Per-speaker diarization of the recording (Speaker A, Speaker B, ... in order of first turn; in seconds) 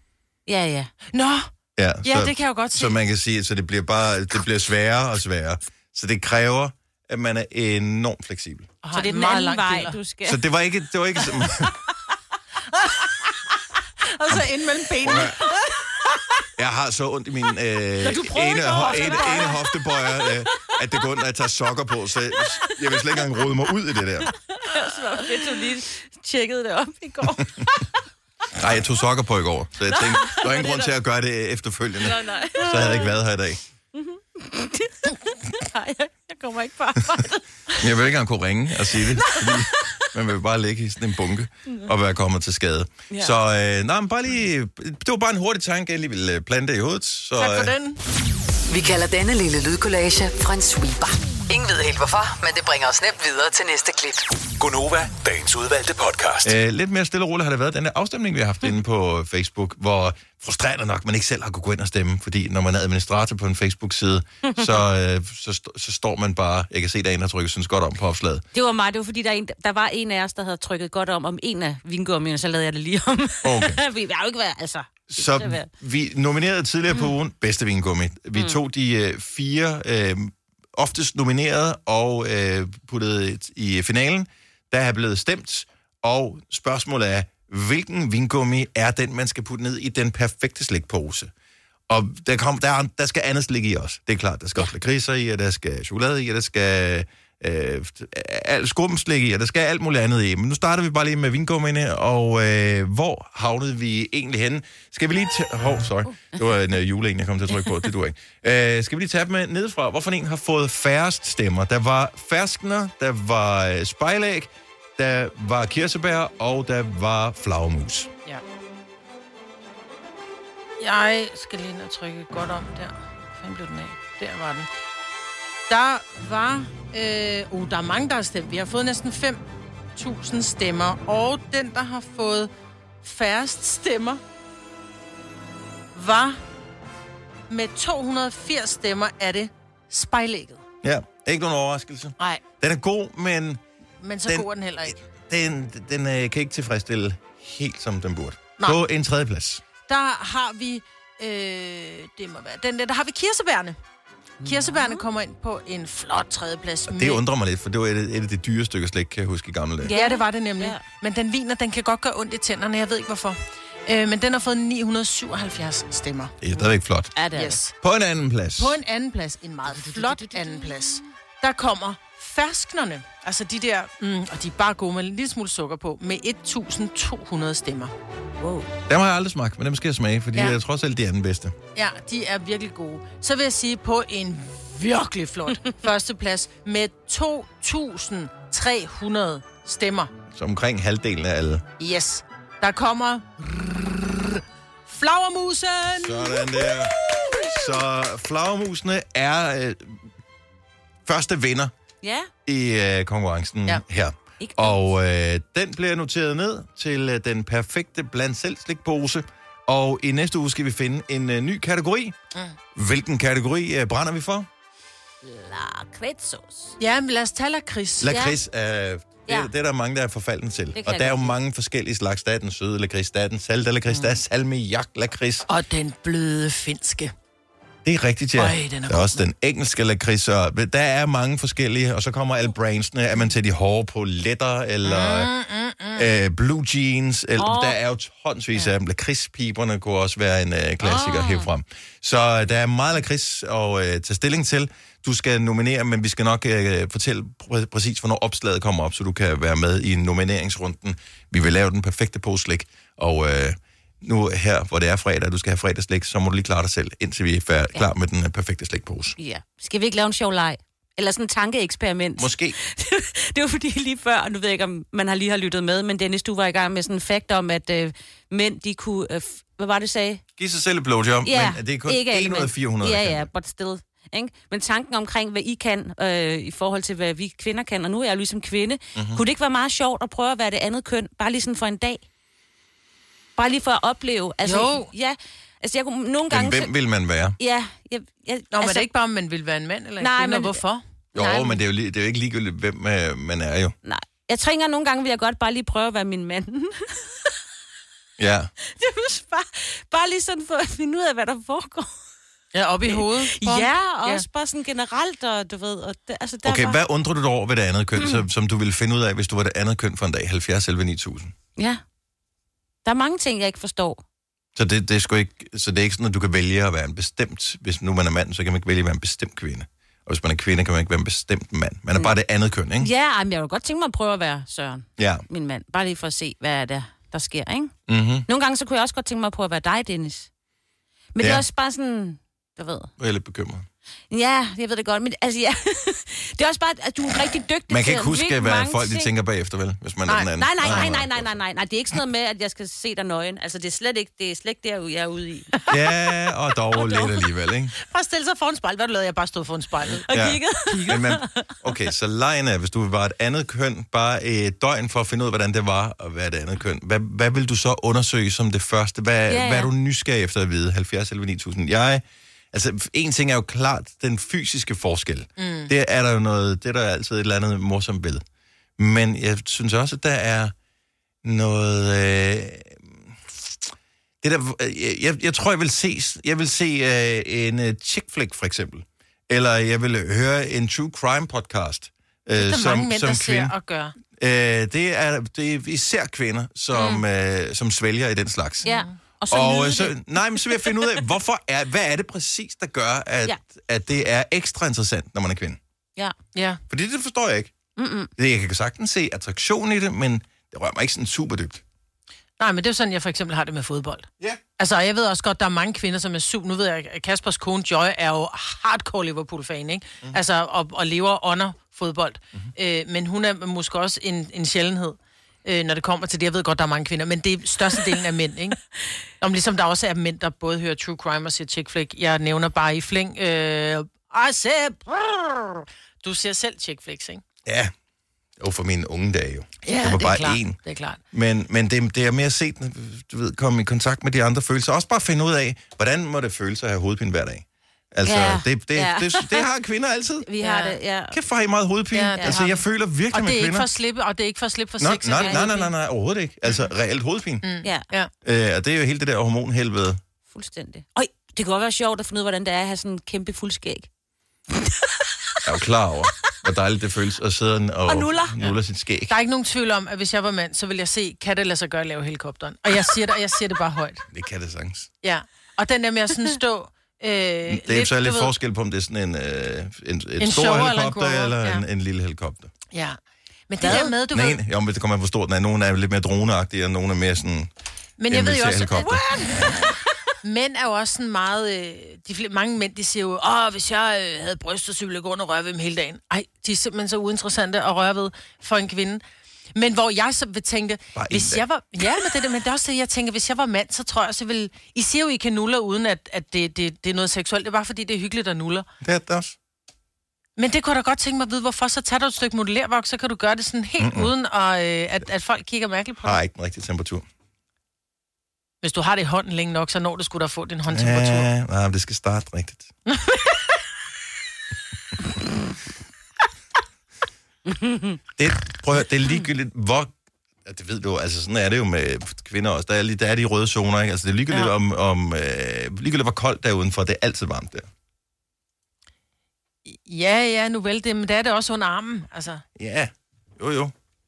Speaker A: 0.5-0.9, 8.9-10.4, 18.0-19.7, 24.3-27.9, 29.9-30.9, 32.0-33.2, 33.9-37.4, 39.2-40.0, 64.5-64.8, 68.5-75.7, 78.3-78.6, 154.4-155.1, 159.8-160.8, 167.2-167.6, 169.7-171.1, 178.4-178.7, 202.0-202.3, 204.4-204.9, 215.2-216.8, 218.1-218.3, 220.8-221.4, 237.4-237.8, 240.8-241.5, 259.2-270.2, 271.2-282.0, 283.4-286.7, 287.4-288.9, 290.0-290.6, 293.9-297.3, 298.7-301.9, 302.9-306.8, 311.6-311.8, 312.9-314.0, 322.8-327.7, 328.3-330.3, 331.1-332.9, 334.1-339.1, 340.4-345.6, 350.1-351.5, 359.3-359.7, 386.7-387.0, 388.6-391.0, 397.8-398.1, 438.1-439.5, 440.3-441.2, 450.3-453.9, 457.9-458.4, 473.6-473.9, 517.6-518.0
Speaker B: 1.1-1.5, 2.0-3.0, 8.8-10.0, 12.7-13.1, 14.1-15.7, 18.8-19.5, 47.4-48.0, 120.8-124.7, 125.7-129.4, 130.0-132.5, 133.0-134.2, 135.9-136.4, 137.5-140.6, 144.0-145.0, 149.9-153.8, 154.4-157.2, 159.9-166.4, 167.3-167.7, 168.6-177.9, 181.8-190.1, 191.8-196.7, 216.8-218.2, 223.9-224.2, 225.5-227.1, 228.4-229.2, 234.8-236.1, 284.4-284.9, 288.5-291.6, 302.5-304.2, 340.1-340.9, 347.8-350.1, 350.7-351.0, 365.4-365.7, 382.4-383.9, 388.6-388.9, 396.4-396.6, 402.4-404.1, 404.6-418.6, 419.2-427.2, 429.6-431.0, 440.4-440.8, 441.9-445.7, 447.4-448.1, 459.1-464.1, 465.0-468.3, 470.2-471.6, 472.7-473.0, 473.5-474.4, 478.0-489.0, 489.6-498.7, 500.4-506.2, 508.6-511.3, 512.9-513.5, 529.7-532.4
Speaker C: 1.8-8.8, 10.2-11.7, 15.0-15.4, 16.6-24.3, 28.6-33.6, 37.8-47.7, 56.4-68.5, 73.4-73.8, 75.1-91.3, 91.9-118.1, 140.8-143.6, 144.3-149.6, 156.9-159.9, 166.4-167.2, 167.8-168.8, 178.9-181.6, 190.3-191.7, 196.0-200.0, 201.1-201.7, 202.5-212.2, 212.8-214.5, 218.0-225.5, 227.8-235.3, 236.0-259.1, 262.2-262.6, 270.4-273.3, 279.0-279.2, 286.3-287.4, 291.1-293.8, 298.2-298.5, 306.4-311.3, 314.6-322.9, 325.0-325.2, 327.9-328.3, 333.0-333.7, 337.7-341.4, 345.7-347.7, 350.1-368.2, 368.8-370.5, 371.2-373.7, 374.2-383.5, 384.2-388.7, 389.3-395.6, 396.7-397.5, 398.2-401.6, 427.5-427.7, 428.4-430.6, 431.1-440.3, 441.1-443.7, 444.8-447.4, 448.2-450.0, 455.4-459.1, 464.1-464.9, 467.5-472.5, 473.7-477.5, 478.1-479.0, 490.9-491.4, 498.8-499.4, 503.8-504.1, 506.0-507.1, 510.7-512.7, 518.2-519.9, 520.5-527.7, 532.6-533.7
Speaker D: 48.7-54.2
Speaker E: 54.6-56.5